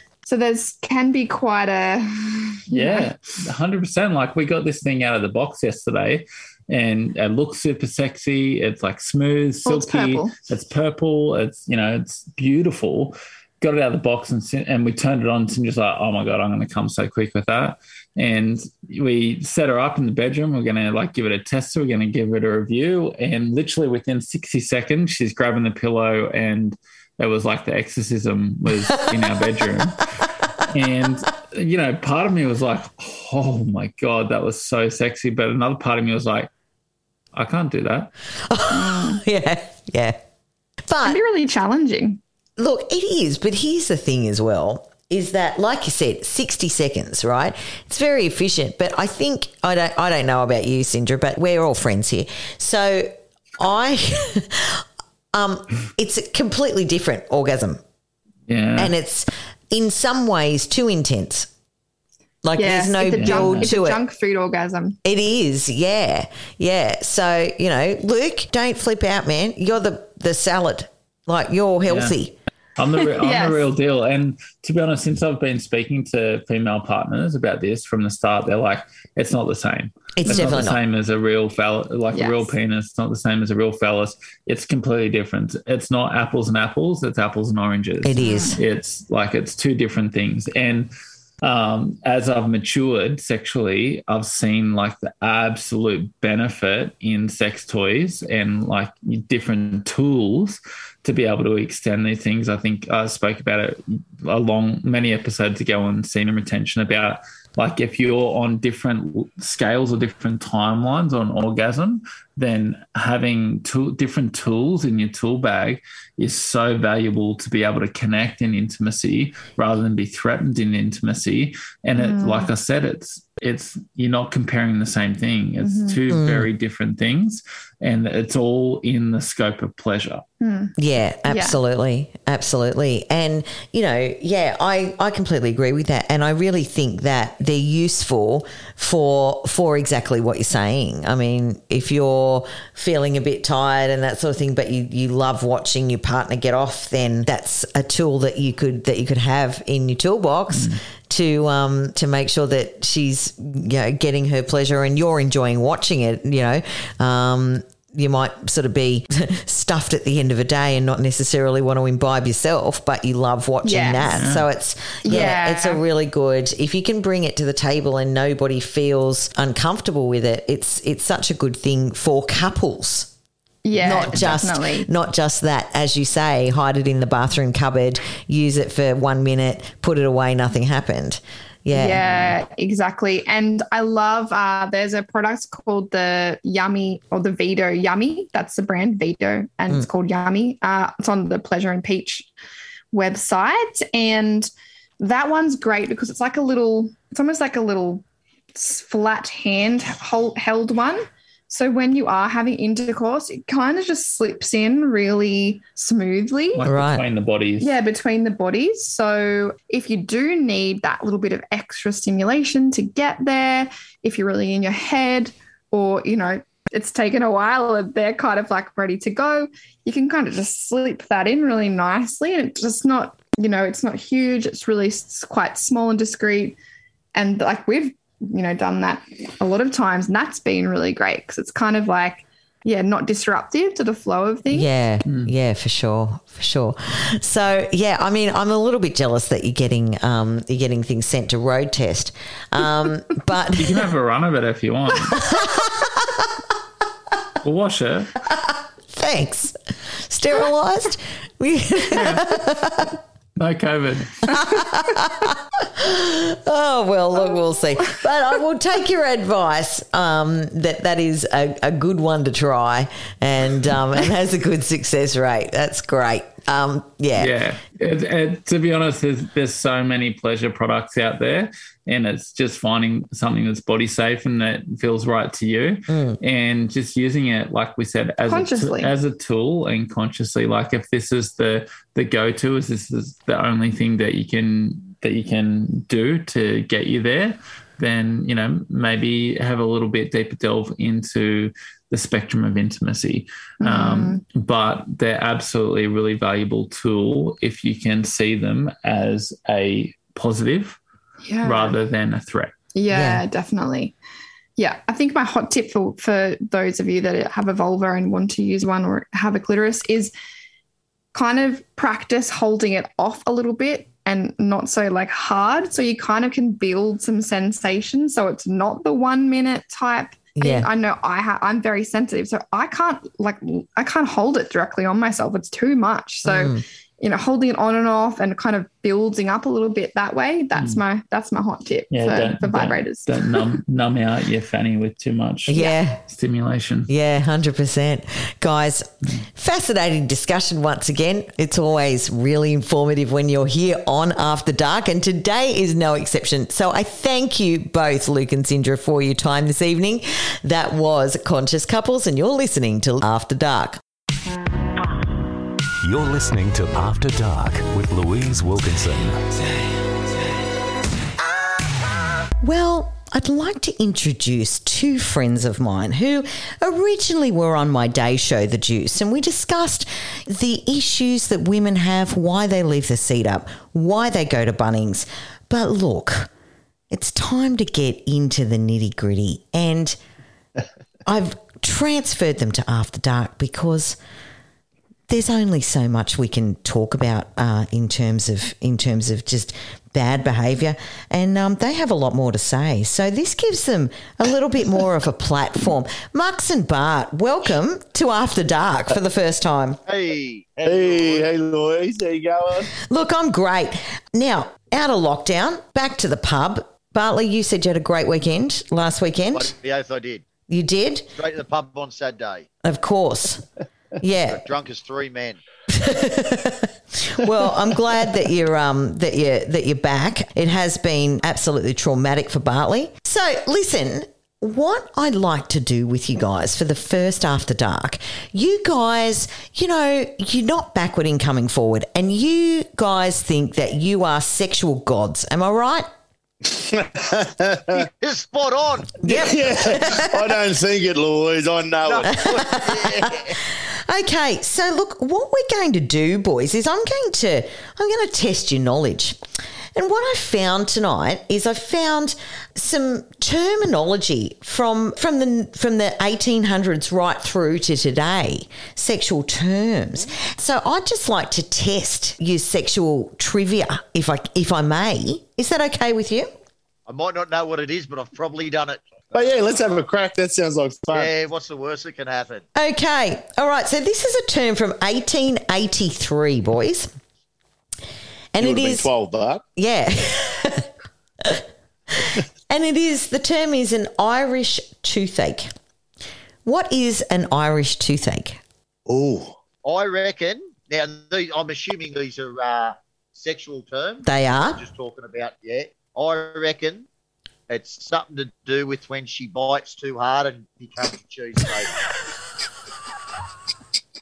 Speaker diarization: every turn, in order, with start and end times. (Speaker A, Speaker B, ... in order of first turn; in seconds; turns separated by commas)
Speaker A: 0.2-3.1, Speaker B: 2.7-30.1, Speaker A: 9.6-10.3, Speaker C: 28.9-29.2, Speaker B: 30.6-36.5, Speaker B: 37.3-38.1, Speaker C: 38.5-40.2, Speaker A: 38.7-39.2, Speaker C: 40.9-41.2, Speaker A: 41.0-42.2, Speaker C: 42.6-57.8, Speaker B: 58.5-58.9, Speaker C: 58.8-61.5, Speaker C: 62.4-64.0, Speaker A: 62.6-65.0, Speaker B: 63.1-63.7, Speaker C: 65.0-72.3, Speaker B: 71.9-72.2, Speaker B: 72.8-90.9, Speaker A: 73.0-73.7, Speaker C: 80.2-80.8, Speaker A: 82.1-82.5, Speaker C: 88.0-88.6, Speaker A: 88.2-88.6, Speaker B: 91.4-130.2, Speaker A: 122.0-122.5, Speaker A: 125.6-126.0, Speaker C: 126.1-126.5, Speaker A: 130.4-130.7, Speaker C: 130.8-173.1, Speaker A: 131.2-131.6, Speaker B: 150.5-150.8, Speaker A: 163.6-164.2, Speaker B: 164.1-164.4, Speaker A: 165.0-165.8, Speaker A: 173.6-174.9, Speaker C: 173.8-182.1, Speaker A: 181.7-192.3, Speaker A: 192.9-198.0, Speaker A: 198.5-206.7, Speaker B: 206.5-207.7, Speaker C: 206.6-207.0, Speaker A: 207.6-226.6, Speaker A: 227.1-234.7, Speaker C: 234.5-243.9, Speaker B: 235.1-235.3, Speaker B: 243.6-245.7, Speaker C: 245.1-246.3, Speaker B: 247.4-248.2, Speaker C: 248.9-253.0, Speaker B: 251.9-252.2, Speaker B: 253.4-254.5, Speaker C: 254.3-267.3, Speaker B: 267.2-300.8, Speaker C: 275.9-276.2, Speaker A: 278.2-278.9, Speaker A: 293.6-294.2, Speaker A: 301.2-301.7, Speaker B: 301.4-302.6, Speaker A: 302.7-303.9, Speaker C: 302.9-303.2, Speaker A: 304.6-310.1, Speaker A: 311.1-333.5, Speaker C: 320.4-320.7, Speaker C: 326.2-326.6, Speaker B: 330.5-330.8, Speaker B: 331.9-336.9, Speaker C: 335.5-336.0, Speaker C: 336.9-353.8, Speaker D: 355.8-359.2, Speaker C: 362.4-376.3, Speaker C: 376.9-380.0, Speaker C: 381.1-384.0, Speaker C: 385.1-399.8, Speaker E: 399.9-401.3, Speaker F: 400.6-402.7, Speaker C: 402.8-409.5, Speaker E: 409.3-410.2, Speaker C: 410.5-411.1, Speaker E: 411.2-412.5, Speaker C: 412.6-413.4, Speaker C: 414.0-414.4, Speaker E: 414.2-415.4, Speaker C: 415.7-435.9, Speaker F: 436.5-437.8, Speaker E: 437.7-439.4, Speaker C: 439.0-440.3, Speaker F: 439.1-442.1, Speaker E: 441.8-443.4, Speaker C: 442.1-449.2, Speaker C: 449.7-466.3, Speaker E: 466.9-469.8, Speaker F: 469.1-471.1, Speaker E: 470.9-472.4, Speaker C: 472.5-476.9, Speaker C: 478.3-478.9, Speaker F: 478.4-479.4, Speaker C: 479.5-480.7, Speaker C: 482.0-485.5, Speaker C: 486.4-488.4, Speaker F: 488.9-489.4, Speaker E: 489.6-496.9, Speaker C: 494.1-494.6, Speaker E: 497.5-501.7